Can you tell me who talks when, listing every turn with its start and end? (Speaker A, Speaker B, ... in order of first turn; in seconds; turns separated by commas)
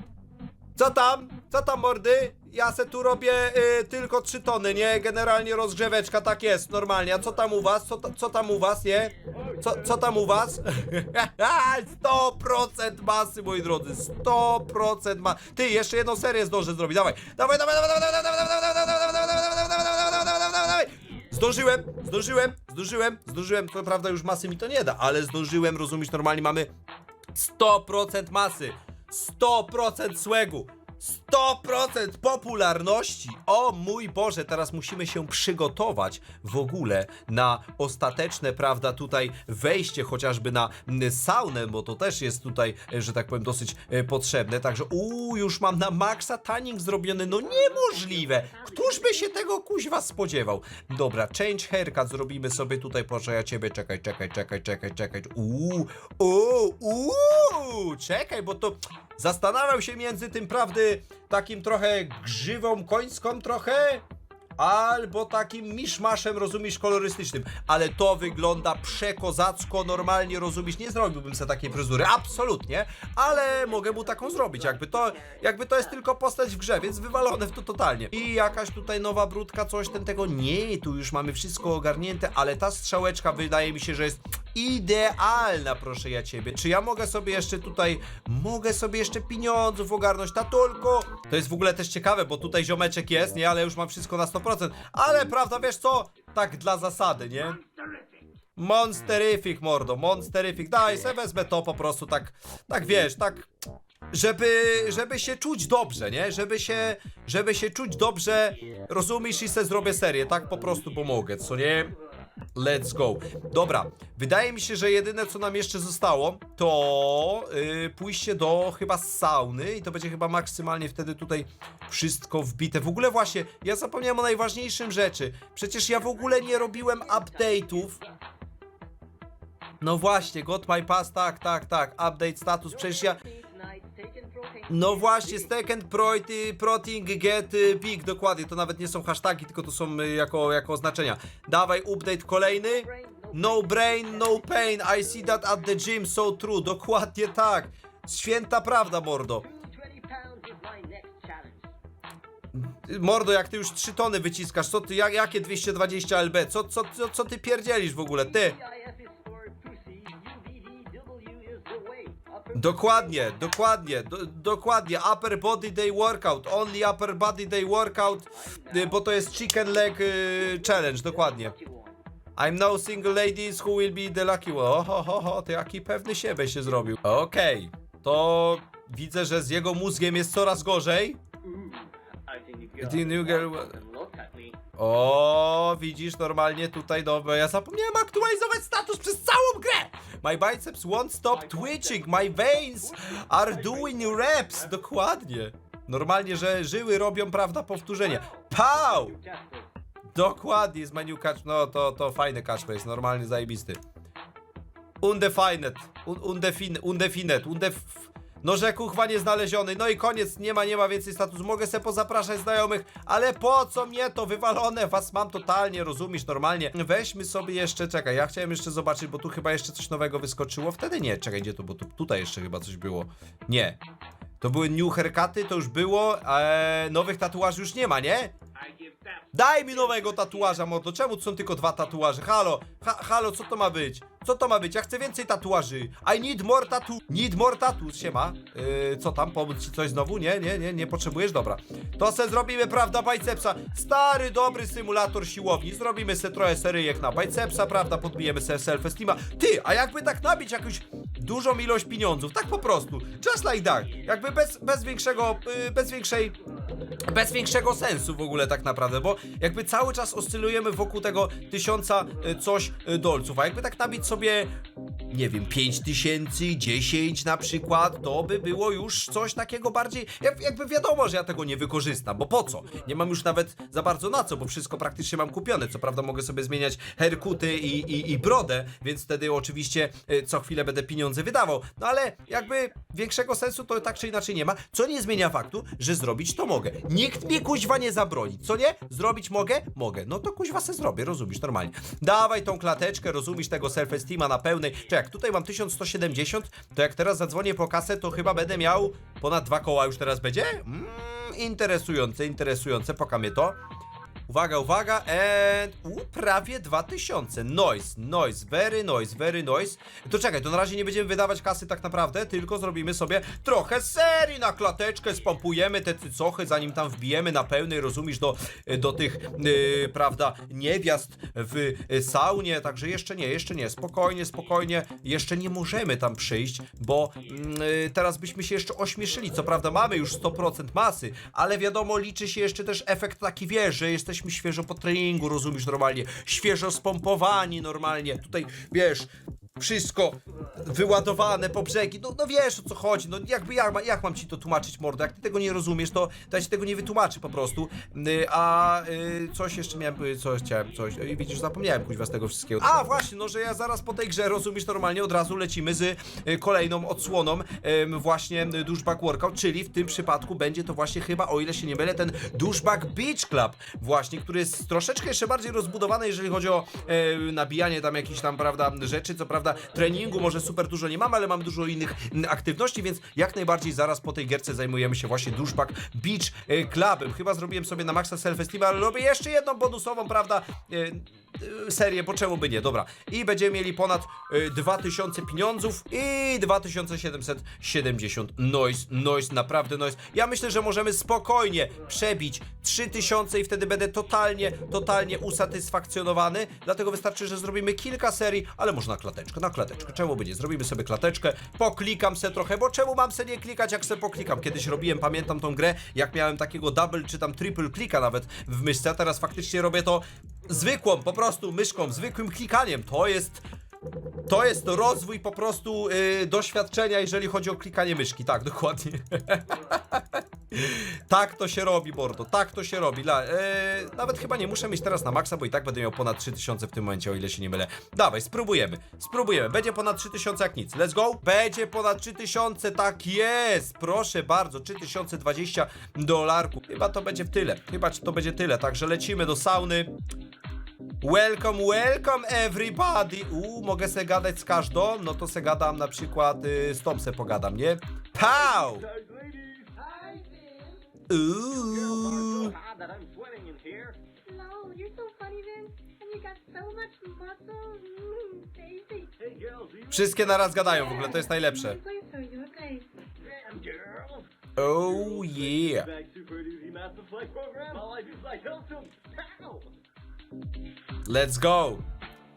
Speaker A: 0.8-26.7, Speaker A: 27.3-64.0, Speaker B: 47.7-49.2, Speaker A: 64.6-97.6, Speaker B: 73.5-75.4, Speaker A: 98.6-103.5, Speaker A: 104.1-111.9, Speaker A: 112.5-128.0, Speaker B: 126.1-128.2, Speaker A: 129.8-133.2, Speaker B: 132.8-135.5, Speaker A: 134.7-149.5, Speaker B: 142.6-145.0, Speaker B: 149.4-151.7, Speaker A: 152.5-158.6, Speaker B: 158.3-163.5, Speaker A: 162.5-171.5, Speaker B: 168.5-169.7, Speaker B: 170.3-172.0, Speaker A: 172.4-181.2, Speaker B: 181.5-184.6, Speaker A: 182.8-183.7, Speaker A: 184.8-199.2, Speaker B: 191.3-194.7, Speaker B: 198.0-199.7, Speaker A: 200.2-203.8, Speaker A: 205.0-223.8, Speaker A: 224.4-228.3, Speaker A: 229.3-256.4, Speaker A: 257.1-264.5, Speaker A: 265.1-303.6, Speaker A: 304.3-413.4, Speaker A: 414.3-439.9, Speaker A: 441.0-448.9, Speaker B: 448.5-450.8, Speaker A: 451.1-452.5, Speaker B: 451.6-454.0, Speaker C: 454.3-459.2, Speaker B: 459.2-460.1, Speaker A: 459.9-461.8, Speaker C: 460.4-462.9, Speaker B: 463.2-469.7, Speaker A: 464.6-465.9, Speaker A: 471.1-471.8